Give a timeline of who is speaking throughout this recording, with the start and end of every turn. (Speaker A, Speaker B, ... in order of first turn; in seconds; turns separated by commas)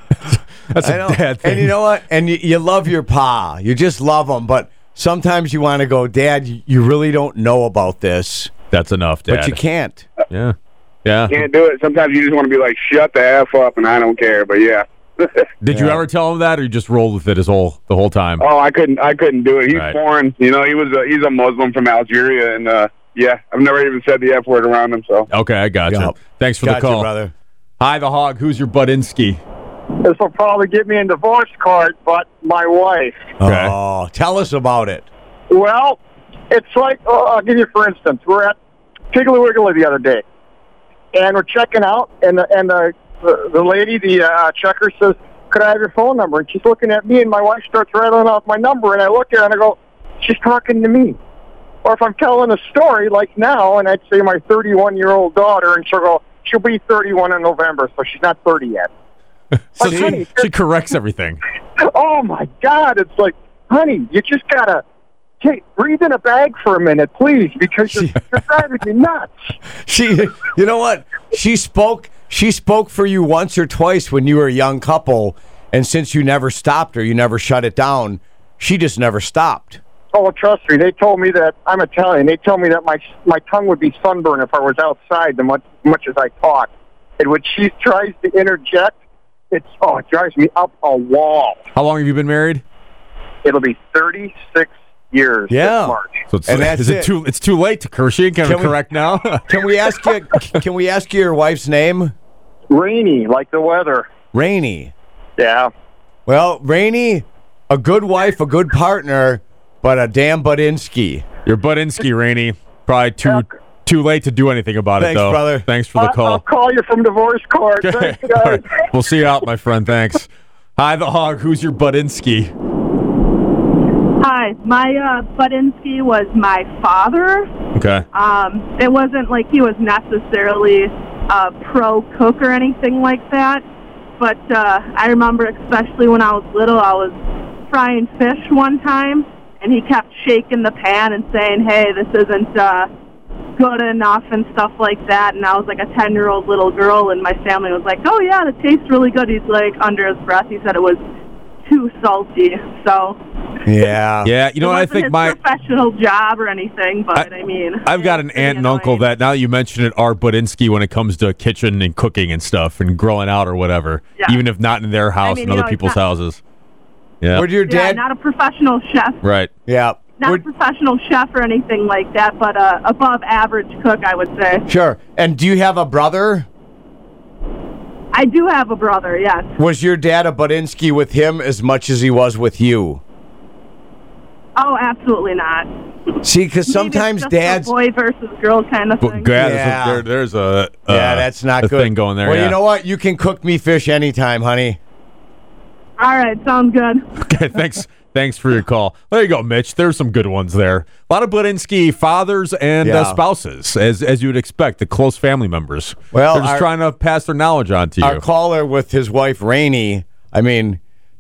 Speaker A: 0.2-1.7, Speaker B: 0.8-8.5, Speaker A: 8.7-9.6, Speaker B: 9.3-10.1, Speaker A: 10.3-11.4, Speaker C: 11.3-15.3, Speaker A: 15.6-18.4, Speaker B: 15.7-16.0, Speaker C: 18.4-25.3, Speaker A: 19.7-20.0, Speaker A: 25.3-27.1, Speaker B: 25.9-27.3, Speaker A: 27.8-29.4, Speaker D: 30.0-33.3, Speaker B: 33.4-35.1, Speaker A: 33.4-33.8, Speaker D: 35.5-36.0, Speaker D: 36.5-38.6, Speaker D: 39.1-40.2, Speaker D: 41.1-51.2, Speaker D: 51.8-58.9, Speaker A: 59.8-61.4, Speaker D: 59.8-60.5, Speaker D: 61.8-64.8, Speaker D: 65.4-69.3, Speaker B: 69.8-79.8, Speaker D: 80.1-89.0, Speaker D: 89.5-91.6, Speaker A: 91.7-92.6, Speaker D: 93.4-96.2, Speaker B: 95.5-97.1, Speaker A: 96.3-99.4, Speaker B: 98.4-98.8, Speaker B: 99.5-102.1, Speaker D: 102.7-104.1, Speaker B: 104.3-104.9, Speaker D: 105.4-105.7, Speaker B: 106.3-111.2, Speaker A: 111.5-116.4, Speaker B: 115.0-115.7, Speaker D: 116.0-118.7, Speaker A: 117.8-122.5, Speaker E: 124.2-127.5, Speaker A: 127.7-128.1, Speaker E: 128.1-133.6, Speaker E: 134.2-137.2, Speaker E: 137.7-142.9, Speaker E: 143.6-151.0, Speaker E: 151.7-153.2, Speaker B: 153.7-154.3, Speaker A: 154.2-155.4, Speaker E: 154.5-159.1, Speaker A: 157.8-166.4, Speaker E: 165.2-166.0, Speaker A: 167.2-167.5, Speaker B: 167.3-168.0, Speaker E: 167.6-169.2, Speaker A: 169.2-169.5, Speaker B: 169.7-170.4, Speaker E: 170.2-174.7, Speaker B: 174.7-176.5, Speaker E: 178.1-179.5, Speaker B: 179.6-183.0, Speaker E: 184.6-185.7, Speaker B: 186.2-187.7, Speaker E: 186.7-189.4, Speaker A: 189.0-192.6, Speaker B: 189.4-190.1, Speaker B: 190.9-194.8, Speaker E: 196.0-197.2, Speaker A: 197.2-208.2, Speaker B: 202.8-203.2, Speaker B: 206.1-206.7, Speaker B: 208.0-210.8